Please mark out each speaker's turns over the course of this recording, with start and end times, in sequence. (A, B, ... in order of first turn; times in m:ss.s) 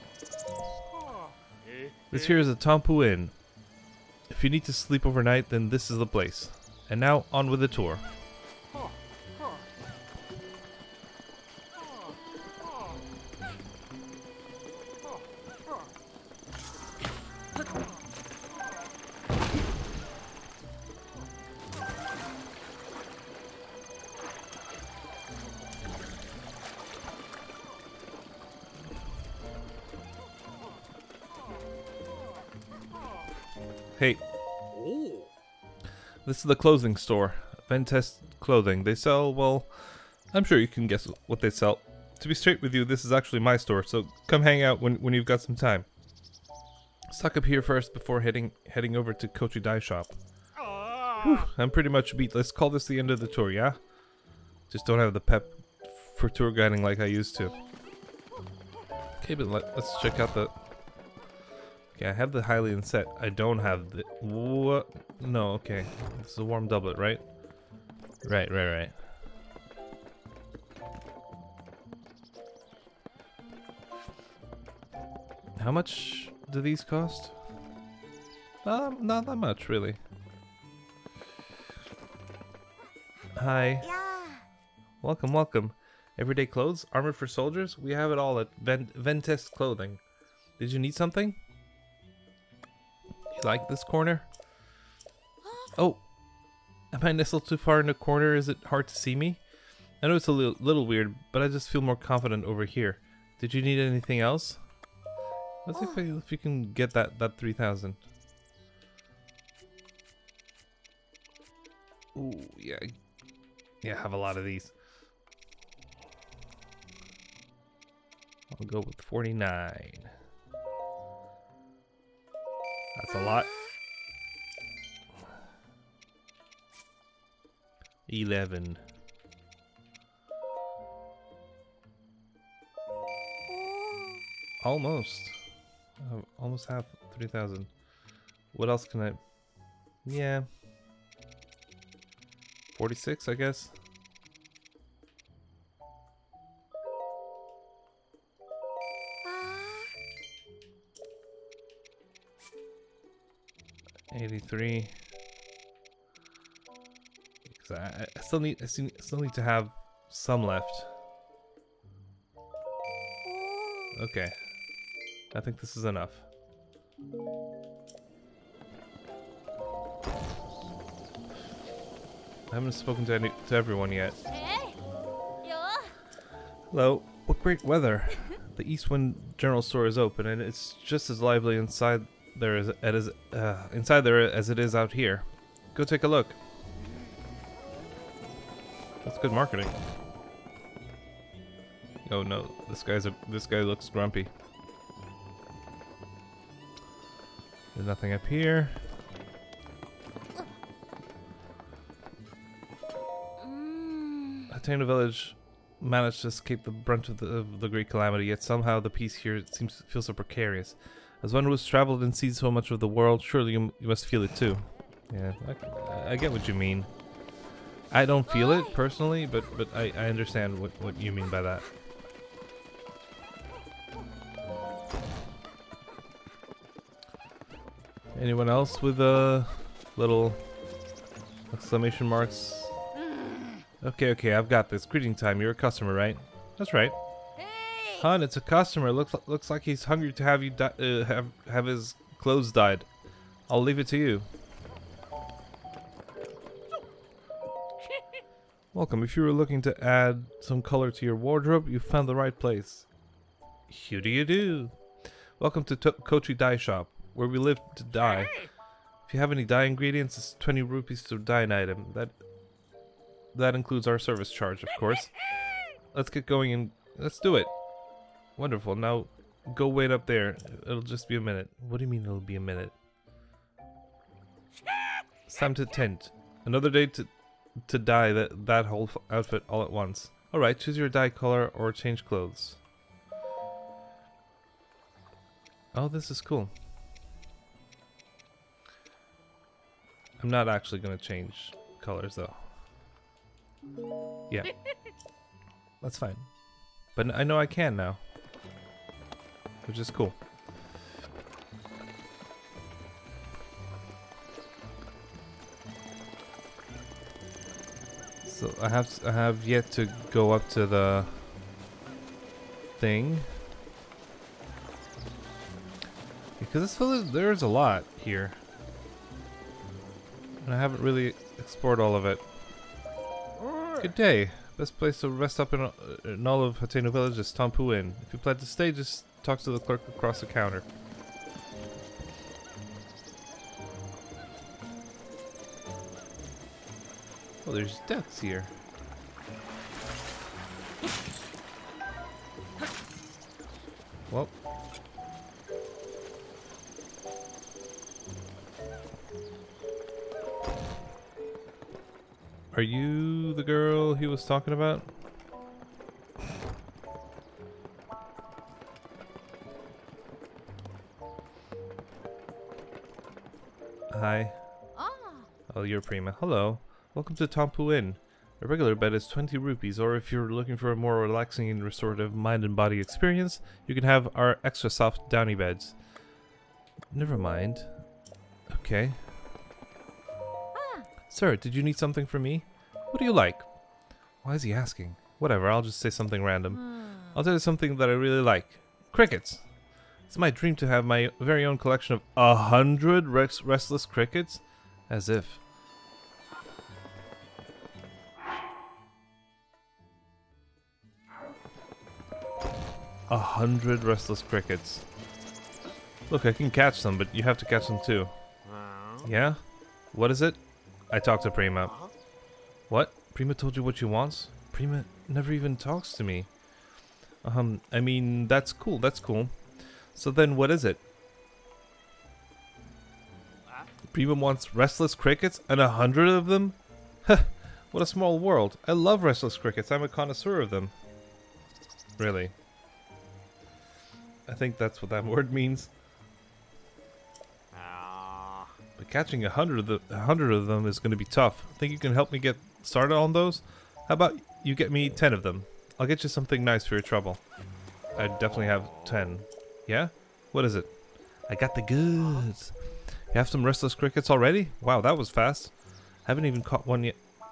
0:02.1-0:03.3 A
0:04.3-0:08.0 A
0:34.0-0:34.2 A
0:34.8-0:35.2 B
0:36.2-0:45.9 A
0:47.1-0:50.2 A
0:51.1-0:53.8 A
0:54.7-0:57.6 A
0:59.2-1:00.5 A
1:01.9-1:07.2 A
1:08.2-1:08.9 A
1:15.6-1:17.4 A
1:18.6-1:20.0 A
1:23.4-1:23.9 A
1:23.8-1:24.4 C
1:25.0-1:30.0 A
1:30.6-1:31.4 A
1:33.3-1:34.3 A
1:35.4-1:35.7 C
1:35.8-1:36.0 A
1:36.9-1:39.4 A
1:40.0-1:44.6 A
1:45.6-1:48.0 A
1:45.7-1:46.0 C
1:52.1-1:52.9 A
1:53.8-1:54.7 A
1:58.5-2:00.1 A
2:02.9-2:03.5 A
2:03.1-2:03.7 C
2:08.1-2:08.8 A
2:13.5-2:14.2 C
2:14.6-2:15.4 A
2:16.0-2:17.7 A
2:18.5-2:19.2 A
2:20.0-2:20.4 A
2:22.7-2:23.7 A
2:29.2-2:29.9 C
2:34.1-2:34.9 A
2:37.5-2:40.9 A
2:43.2-2:44.0 C
2:43.9-2:44.3 A
2:45.3-2:46.2 A
2:52.5-2:54.2 A
2:54.3-2:54.8 C
2:55.4-2:55.9 C
2:56.7-3:06.4 A
3:09.0-3:09.7 A
3:12.0-3:14.3 A
3:17.7-3:18.8 A
3:23.4-3:24.5 C
3:24.5-3:36.9 A
3:37.9-3:41.6 A
3:38.3-3:38.8 C
3:48.1-3:50.4 A
3:51.5-3:52.7 A
3:53.8-3:56.9 A
3:57.4-3:58.1 C
3:58.0-4:02.9 A
4:03.5-4:04.3 A
4:08.7-4:12.9 A
4:13.7-4:14.8 A
4:15.4-4:18.3 A
4:19.1-4:22.1 A
4:23.3-4:25.1 A
4:25.9-4:27.5 A
4:28.4-4:32.7 A
4:35.3-4:37.1 A
4:37.6-4:42.6 A
4:45.7-4:46.5 A
4:50.2-4:52.4 A
4:55.8-4:56.3 A
4:56.9-4:58.0 A
4:59.6-5:00.2 A
5:08.2-5:11.2 A
5:12.8-5:13.3 A
5:16.4-5:18.4 A
5:20.4-5:22.2 A
5:23.4-5:23.9 B
5:23.8-5:30.6 A
5:37.4-5:38.5 A
5:52.5-5:54.9 A
6:03.9-6:04.4 A
6:04.8-6:05.3 C
6:05.5-6:15.8 A
6:16.9-6:17.7 A
6:18.5-6:19.0 A
6:20.5-6:20.9 C
6:21.1-6:23.5 A
6:24.2-6:29.4 A
6:26.5-6:27.2 C
6:30.1-6:35.4 A
6:43.1-6:44.8 A
6:46.1-6:48.1 A
6:48.4-6:49.1 B
6:49.0-6:49.4 A
6:49.9-6:51.7 A
6:51.6-6:51.9 B
6:52.7-6:56.3 A
6:57.2-6:59.4 A
6:59.9-7:00.8 A
7:03.9-7:10.7 A
7:12.0-7:12.3 A
7:14.3-7:15.7 A
7:17.5-7:18.5 B
7:18.8-7:27.2 A
7:28.0-7:30.7 A
7:28.4-7:28.8 B
7:31.3-7:32.5 A
7:33.1-7:35.5 A
7:36.0-7:37.0 A